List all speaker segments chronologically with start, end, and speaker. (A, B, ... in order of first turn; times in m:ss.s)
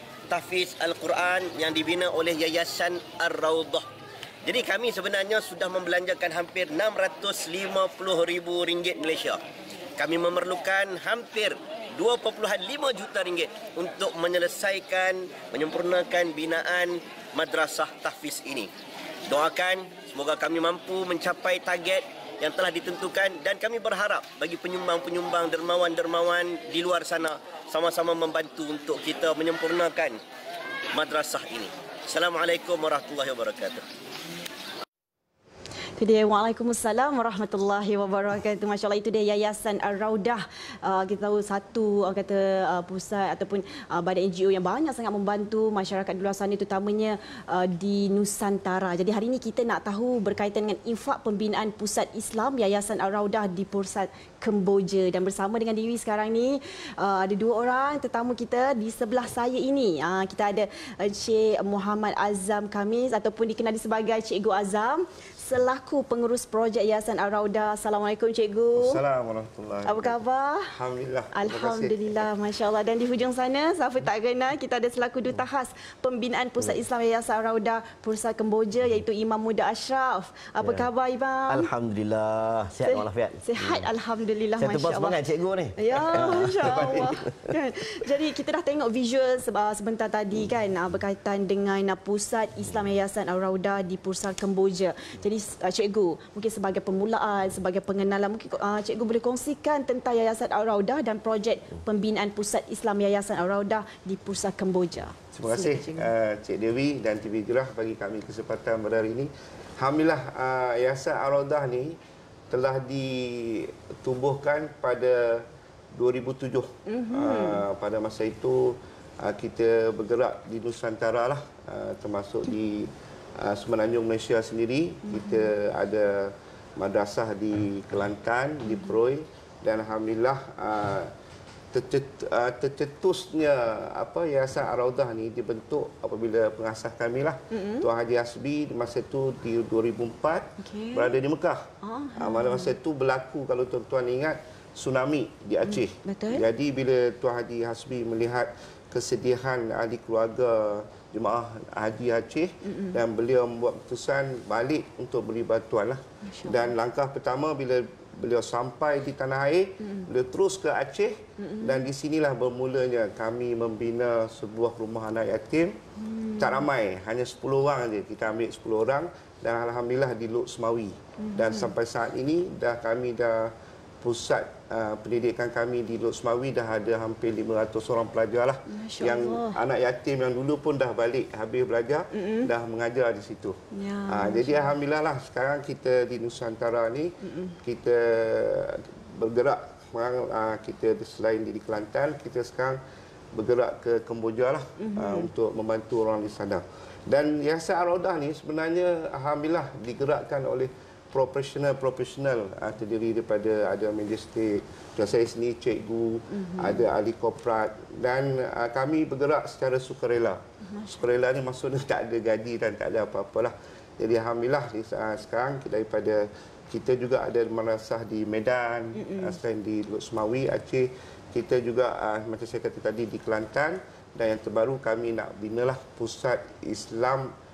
0:00.3-0:03.9 A
0:04.4-0:09.4 A
0:10.0-0:18.7 A
0:19.3-0:30.2 A
0:30.9-0:33.8 A
0:36.0-1:09.0 B
1:08.7-1:12.2 C
1:09.8-1:10.7 B
1:11.3-1:21.7 B
1:20.6-1:20.9 A
1:21.5-1:23.9 A
1:22.8-1:25.2 B
1:24.6-1:27.5 A
1:25.7-1:46.1 B
1:26.6-1:27.0 C
1:45.3-1:52.0 C
1:52.5-1:55.4 C
1:55.9-2:11.1 C
1:56.8-1:57.6 B
2:05.0-2:05.5 B
2:08.7-2:09.0 B
2:11.7-2:21.6 C
2:17.5-2:17.9 B
2:20.6-2:21.2 B
2:21.8-2:22.7 B
2:22.2-2:45.8 C
2:25.6-2:26.4 B
2:32.6-2:33.0 B
2:36.2-2:36.7 B
2:39.8-2:40.1 B
2:41.4-2:41.8 B
2:46.0-2:46.6 B
2:46.4-3:12.8 C
2:51.2-2:51.7 B
2:58.7-2:59.6 B
3:02.1-3:02.5 B
3:03.7-3:04.7 B
3:07.2-3:07.6 B
3:13.3-3:30.4 C
3:14.8-3:15.3 B
3:26.3-3:26.8 B
3:30.6-3:31.0 B
3:30.9-3:47.3 C
3:38.9-3:39.4 B